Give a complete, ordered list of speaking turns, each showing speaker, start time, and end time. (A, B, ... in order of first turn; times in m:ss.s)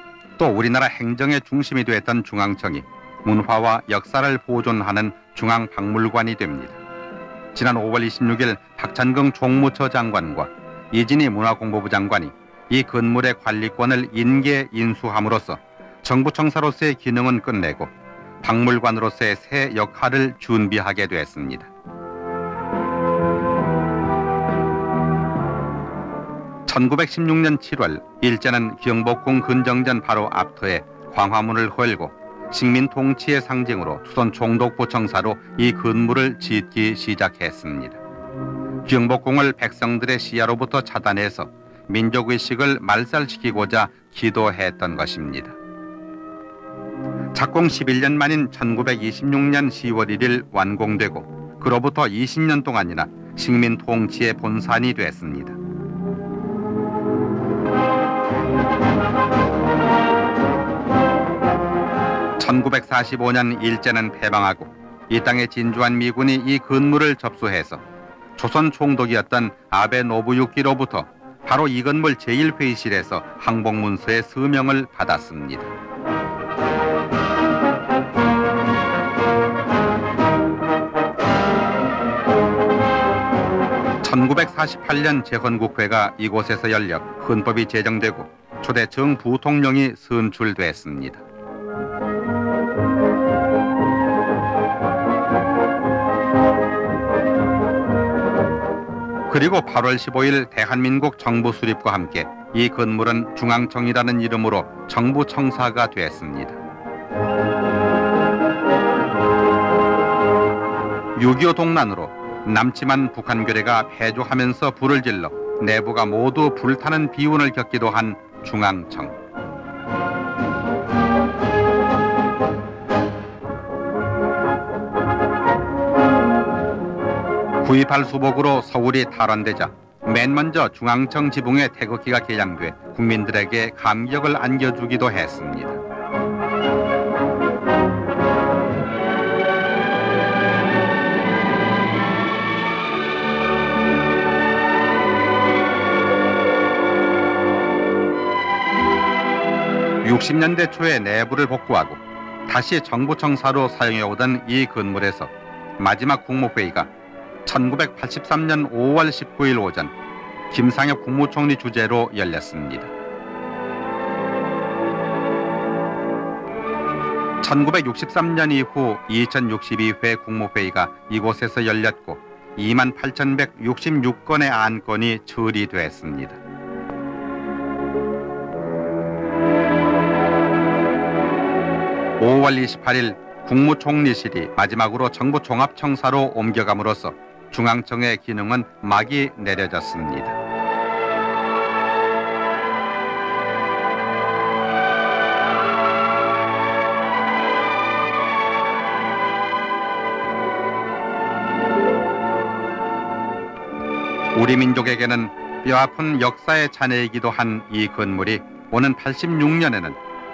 0:00.4-0:06.8 A
0:07.5-0:17.9 A
0:18.4-0:21.7 A
0:26.7-0:38.0 A
0:38.8-0:45.6 A
0:47.3-0:55.6 A
1:02.4-1:07.8 A
1:08.4-1:15.7 A
1:24.0-1:31.2 A
1:39.3-1:46.6 A
1:51.2-1:59.2 A
2:07.6-2:15.8 A
2:30.0-2:36.9 A
2:37.4-2:39.9 A
2:40.5-2:42.9 A
2:47.4-2:56.4 A
3:02.2-3:10.4 A
3:24.3-3:30.0 A